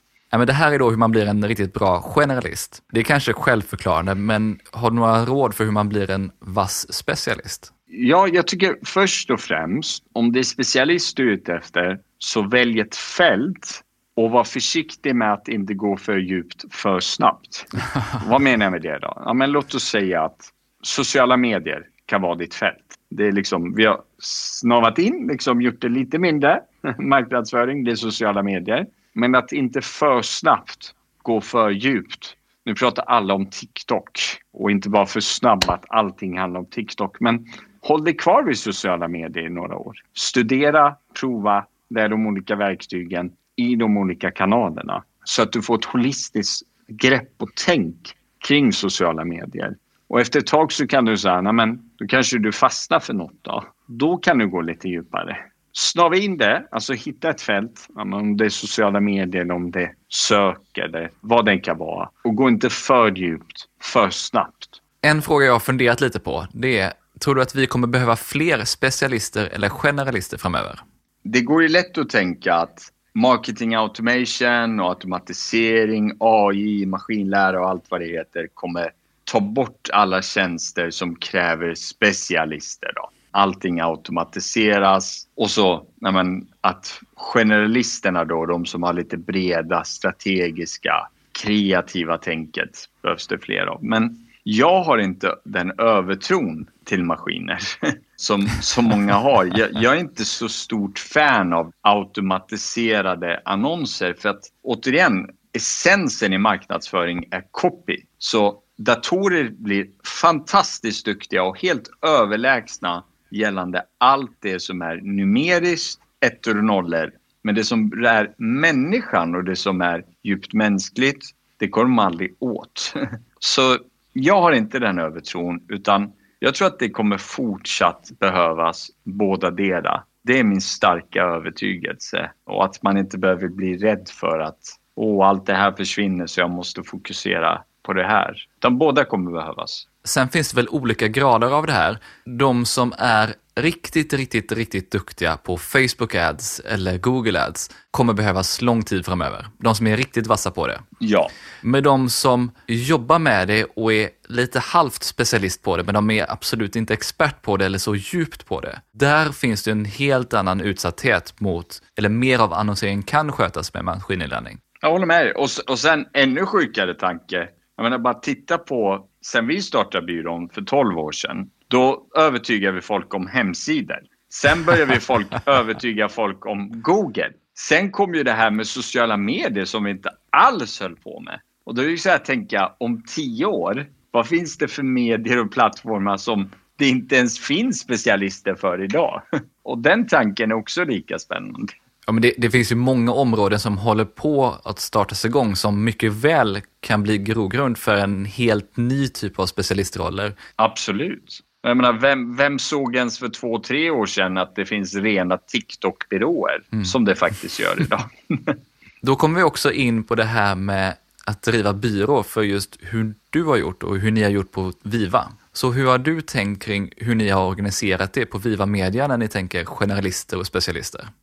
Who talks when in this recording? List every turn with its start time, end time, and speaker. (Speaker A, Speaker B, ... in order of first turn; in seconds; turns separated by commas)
Speaker A: 0.3-7.7, Speaker B: 7.9-64.8, Speaker A: 65.0-70.8, Speaker B: 71.2-139.8, Speaker A: 140.0-150.8, Speaker B: 151.0-151.3, Speaker A: 151.6-164.6, Speaker B: 164.8-191.7, Speaker A: 192.1-200.4, Speaker B: 200.6-208.6, Speaker A: 209.0-221.1